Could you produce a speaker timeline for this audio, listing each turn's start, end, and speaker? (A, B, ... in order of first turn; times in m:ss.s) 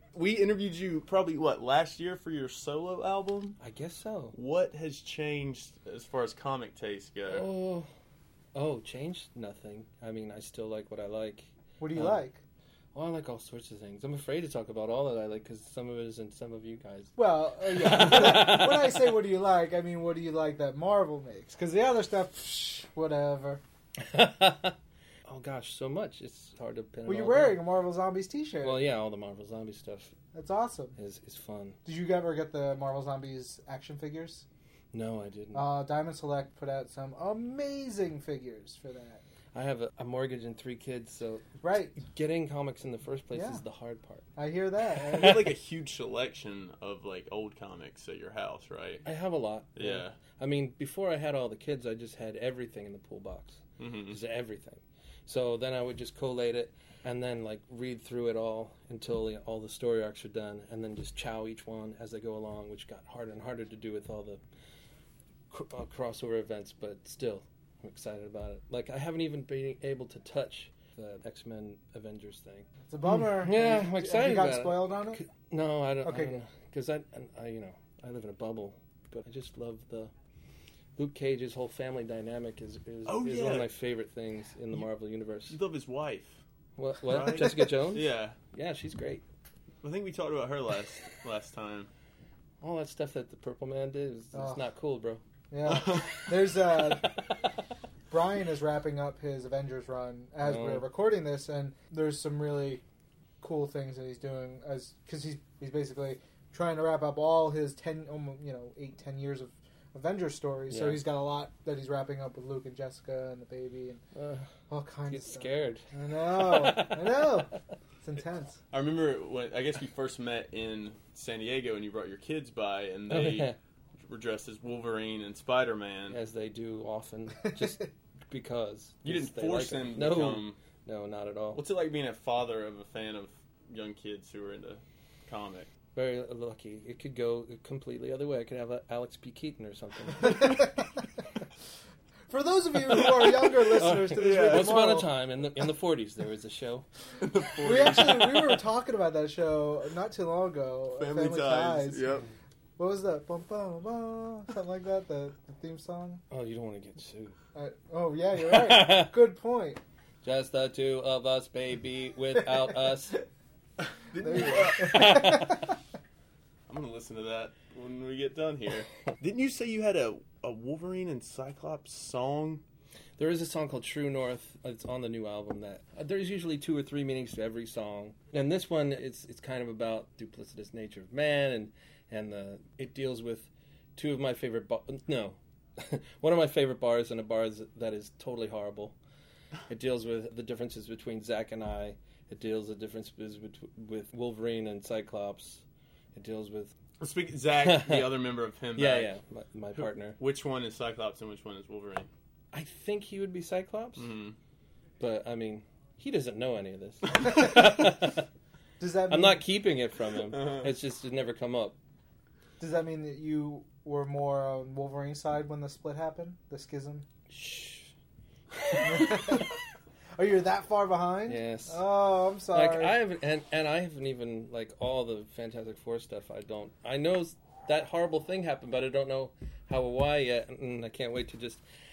0:00.1-0:03.6 A
0:03.6-0:04.4 B
0:04.3-0:07.5 A
0:07.3-0:07.9 B
0:08.6-0:12.2 B
0:11.8-0:12.4 C
0:12.9-0:19.0 B
0:17.2-0:23.6 C
0:24.1-0:24.8 B
0:25.3-0:27.6 B
0:27.1-0:28.8 C
0:28.6-0:30.1 B
0:30.3-0:31.0 C
0:31.0-0:31.8 B
0:31.8-0:34.4 C
0:34.9-0:35.7 B
0:35.5-0:39.2 C
0:39.5-0:44.3 B
0:41.6-0:42.0 C
0:43.3-0:43.6 C
0:44.4-0:45.4 C
0:45.1-0:49.1 A
0:49.0-1:04.4 B
0:49.8-0:50.2 A
0:53.8-0:54.2 A
1:05.5-1:12.7 B
1:12.9-1:15.2 C
1:13.4-1:20.1 B
1:16.0-1:16.4 C
1:21.0-1:25.6 B
1:23.1-1:23.7 A
1:25.5-1:26.4 A
1:26.8-1:29.2 B
1:27.0-1:28.4 A
1:29.8-1:31.9 A
1:32.6-1:35.2 B
1:34.3-1:34.7 C
1:35.5-1:37.2 C
1:35.7-1:36.4 A
1:38.1-1:42.8 C
1:40.4-1:40.9 B
1:43.4-1:54.0 C
1:50.7-1:51.0 B
1:54.2-1:54.5 B
1:54.7-1:57.5 C
1:55.1-1:57.3 B
1:58.0-1:58.6 C
1:58.7-2:06.2 A
2:03.1-2:03.6 B
2:06.1-2:11.6 B
2:09.0-2:10.6 A
2:11.5-2:15.7 A
2:16.0-2:20.6 B
2:20.2-2:20.8 C
2:22.3-2:25.1 C
2:23.8-2:26.9 B
2:24.2-2:24.8 A
2:27.2-2:28.6 A
2:27.6-2:32.1 C
2:31.0-2:32.3 A
2:32.8-2:36.2 C
2:36.3-2:37.4 B
2:37.5-2:39.8 C
2:38.6-2:39.1 B
2:40.2-2:43.3 B
2:44.1-2:45.5 A
2:44.2-2:45.2 C
2:44.8-2:45.6 B
2:46.7-2:52.6 A
2:53.2-3:09.0 B
3:09.7-3:15.6 B
3:16.2-3:16.7 B
3:17.0-3:19.1 A
3:17.6-3:18.2 B
3:18.8-3:20.2 B
3:19.8-3:22.1 A
3:22.5-3:24.1 B
3:24.0-3:24.4 A
3:25.0-3:28.3 B
3:28.8-3:29.4 C
3:29.1-3:31.8 B
3:30.3-3:30.7 A
3:32.6-3:37.1 C
3:37.3-3:37.9 B
3:38.7-3:39.1 B
3:38.8-3:39.5 C
3:40.2-3:43.0 C
3:41.3-3:41.8 B
3:42.5-3:51.6 B